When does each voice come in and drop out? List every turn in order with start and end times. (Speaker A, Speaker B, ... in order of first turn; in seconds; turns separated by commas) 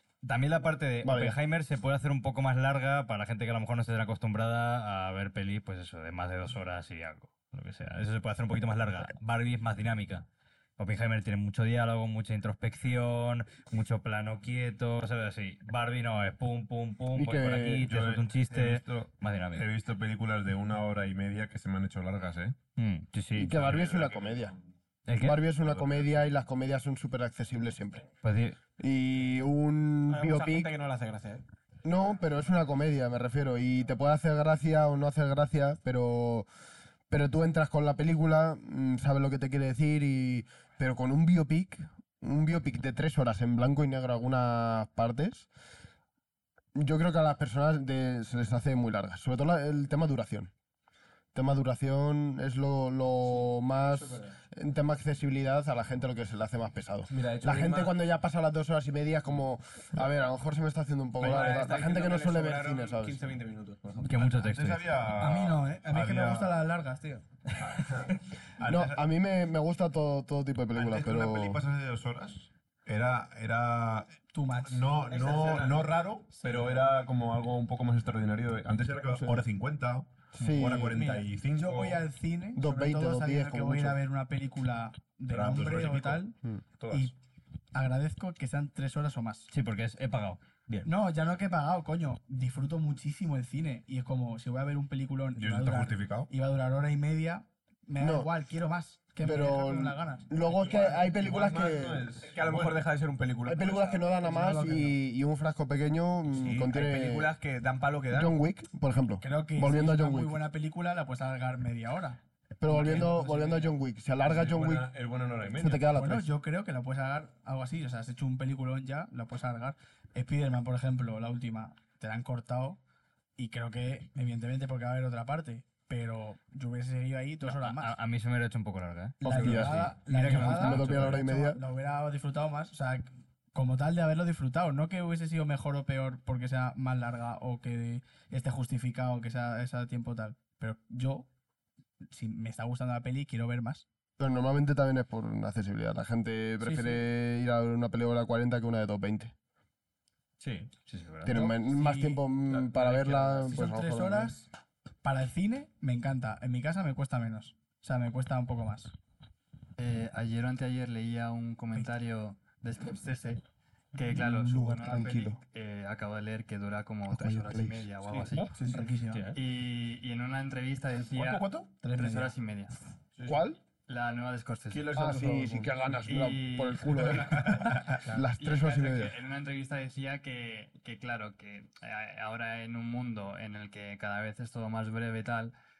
Speaker A: 0.2-10.2, Speaker B: 1.0-1.4, Speaker A: 10.8-19.6, Speaker B: 17.1-17.9, Speaker C: 17.8-22.6, Speaker A: 22.8-23.7, Speaker B: 23.4-24.6, Speaker C: 23.6-24.6, Speaker A: 25.1-25.4, Speaker B: 25.2-28.1, Speaker C: 25.6-26.4, Speaker A: 28.2-28.6, Speaker B: 28.8-30.7, Speaker D: 30.1-31.4, Speaker B: 31.9-36.5, Speaker B: 37.1-45.5, Speaker B: 46.7-50.5, Speaker B: 51.3-63.2, Speaker D: 53.2-54.4, Speaker D: 57.1-57.9, Speaker D: 61.2-64.2, Speaker A: 64.0-64.9, Speaker C: 64.1-66.7, Speaker E: 65.2-67.2, Speaker C: 67.6-69.0, Speaker B: 68.7-71.6, Speaker C: 70.7-82.1, Speaker E: 74.3-74.9, Speaker D: 75.1-76.8, Speaker B: 79.1-79.4, Speaker B: 80.3-81.0, Speaker E: 80.9-86.4, Speaker B: 82.5-84.0, Speaker C: 85.3-86.2, Speaker C: 86.8-87.1, Speaker E: 87.7-89.5, Speaker A: 89.5-90.9, Speaker E: 90.8-100.3, Speaker C: 95.4-96.3, Speaker B: 98.0-98.3, Speaker B: 99.2-102.1, Speaker C: 100.5-102.8, Speaker D: 102.2-104.0, Speaker B: 103.5-107.3, Speaker E: 104.2-105.0, Speaker D: 106.3-108.4, Speaker B: 108.1-110.4, Speaker E: 109.2-113.7, Speaker B: 112.6-114.9, Speaker C: 114.2-115.9, Speaker B: 115.6-116.3, Speaker E: 115.9-122.8, Speaker E: 123.4-128.0, Speaker A: 127.4-131.2, Speaker E: 129.2-141.3, Speaker B: 129.2-131.6, Speaker E: 142.1-143.8, Speaker B: 144.2-149.3, Speaker E: 146.6-147.0, Speaker A: 150.4-151.4, Speaker B: 151.2-154.4, Speaker E: 151.3-154.5, Speaker D: 152.5-153.1, Speaker E: 155.0-158.9, Speaker F: 159.8-168.6, Speaker B: 164.1-165.4, Speaker B: 167.1-167.9, Speaker D: 168.1-169.4, Speaker E: 168.4-169.3, Speaker F: 169.3-172.8, Speaker E: 171.8-172.3, Speaker D: 173.2-173.4, Speaker B: 173.2-173.6, Speaker F: 173.9-174.9, Speaker D: 174.7-175.7, Speaker B: 174.9-179.1, Speaker F: 176.1-177.6, Speaker F: 178.3-185.5